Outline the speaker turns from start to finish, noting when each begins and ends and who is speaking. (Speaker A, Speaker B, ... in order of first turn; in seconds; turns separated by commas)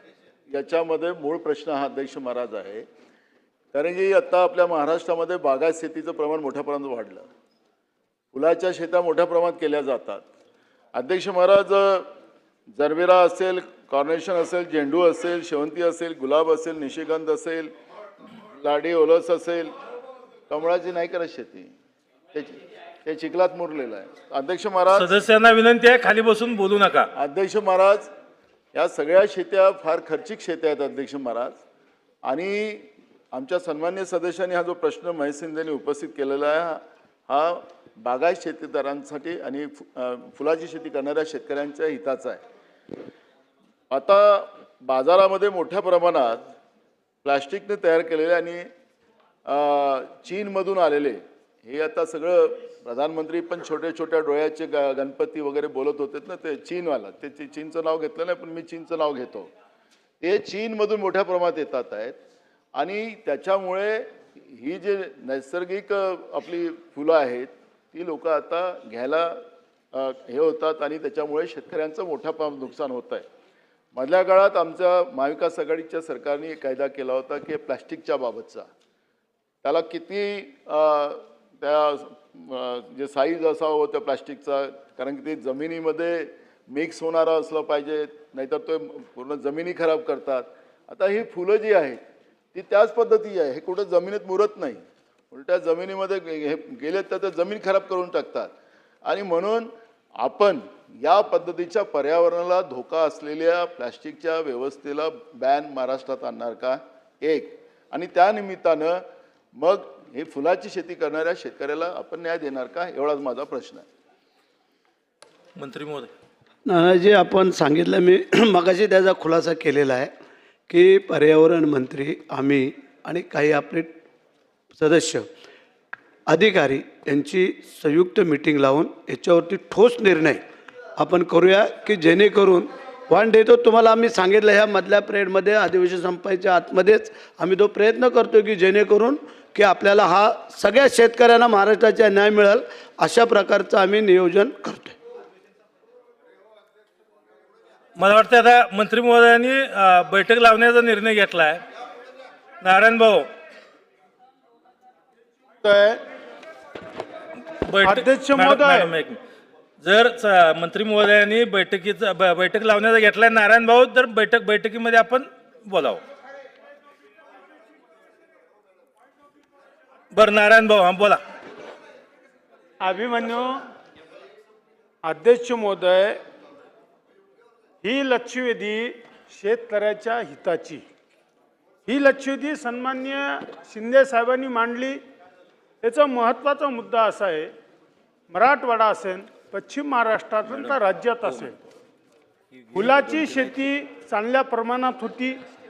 Speaker A: 0.5-2.8, Speaker A: 3.7-7.3, Speaker A: 8.3-10.2, Speaker A: 10.9-12.1, Speaker A: 12.7-17.7, Speaker A: 18.6-19.7, Speaker A: 20.5-21.7, Speaker A: 22.3-25.1, Speaker B: 24.9-27.1, Speaker A: 27.1-28.1, Speaker A: 28.7-31.6, Speaker A: 32.2-42.4, Speaker A: 43.9-46.5, Speaker A: 47.2-48.7, Speaker A: 49.5-59.5, Speaker A: 60.2-62.1, Speaker A: 62.7-69.4, Speaker A: 69.9-73.2, Speaker A: 73.9-78.7, Speaker A: 79.6-92.0, Speaker A: 92.5-98.5, Speaker A: 99.0-109.0, Speaker A: 109.5-113.8, Speaker B: 115.5-116.1, Speaker C: 116.7-120.1, Speaker C: 120.7-123.9, Speaker C: 124.7-125.3, Speaker C: 126.3-130.4, Speaker C: 131.0-144.9, Speaker B: 147.9-151.6, Speaker B: 152.6-153.2, Speaker D: 155.6-156.0, Speaker B: 157.6-159.2, Speaker D: 157.8-158.9, Speaker B: 159.8-166.0, Speaker B: 170.1-171.2, Speaker D: 172.8-173.6, Speaker D: 175.0-176.2, Speaker D: 177.8-180.8, Speaker D: 181.9-185.0, Speaker D: 185.8-187.5, Speaker D: 188.3-191.5, Speaker B: 190.5-191.5, Speaker B: 192.5-193.6, Speaker D: 192.7-195.4